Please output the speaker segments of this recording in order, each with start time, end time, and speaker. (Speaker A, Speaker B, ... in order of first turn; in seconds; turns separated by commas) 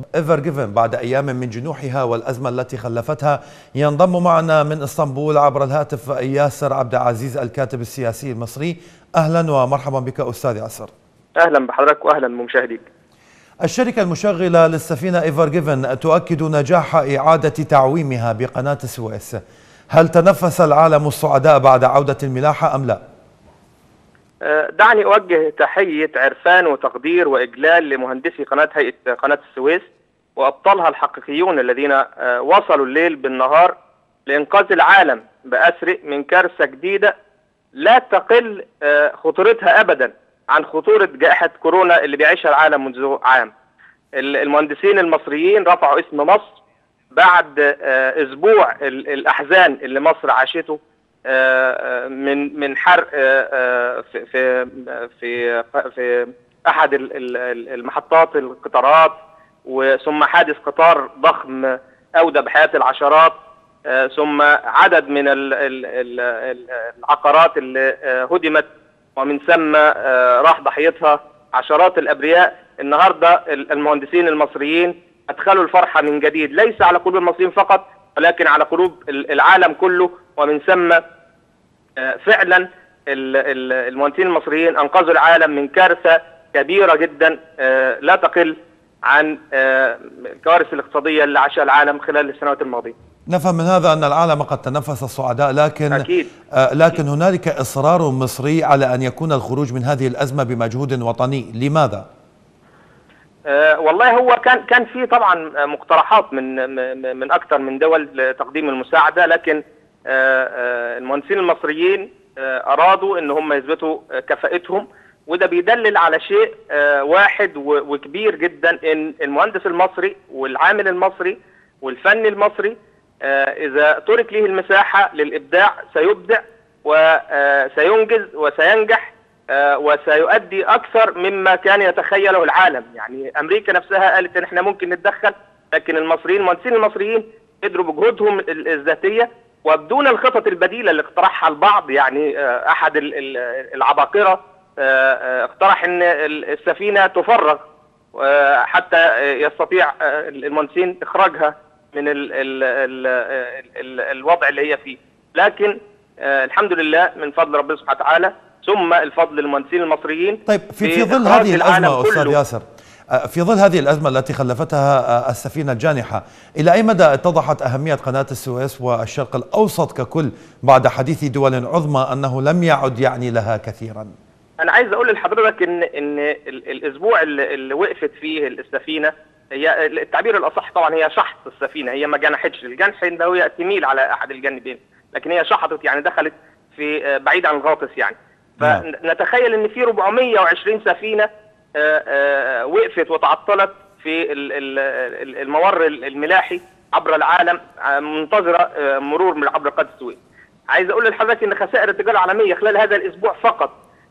Speaker A: 0.1-10.9, Speaker B: 11.4-12.8, Speaker A: 13.6-19.4, Speaker A: 19.9-23.0, Speaker B: 24.4-33.8, Speaker B: 34.3-37.1, Speaker B: 37.7-43.5, Speaker B: 44.2-46.6, Speaker B: 47.1-81.0, Speaker B: 82.0-93.0, Speaker A: 93.3-102.1, Speaker B: 95.9-96.3, Speaker B: 103.5-162.4, Speaker A: 160.5-174.1, Speaker B: 174.6-203.8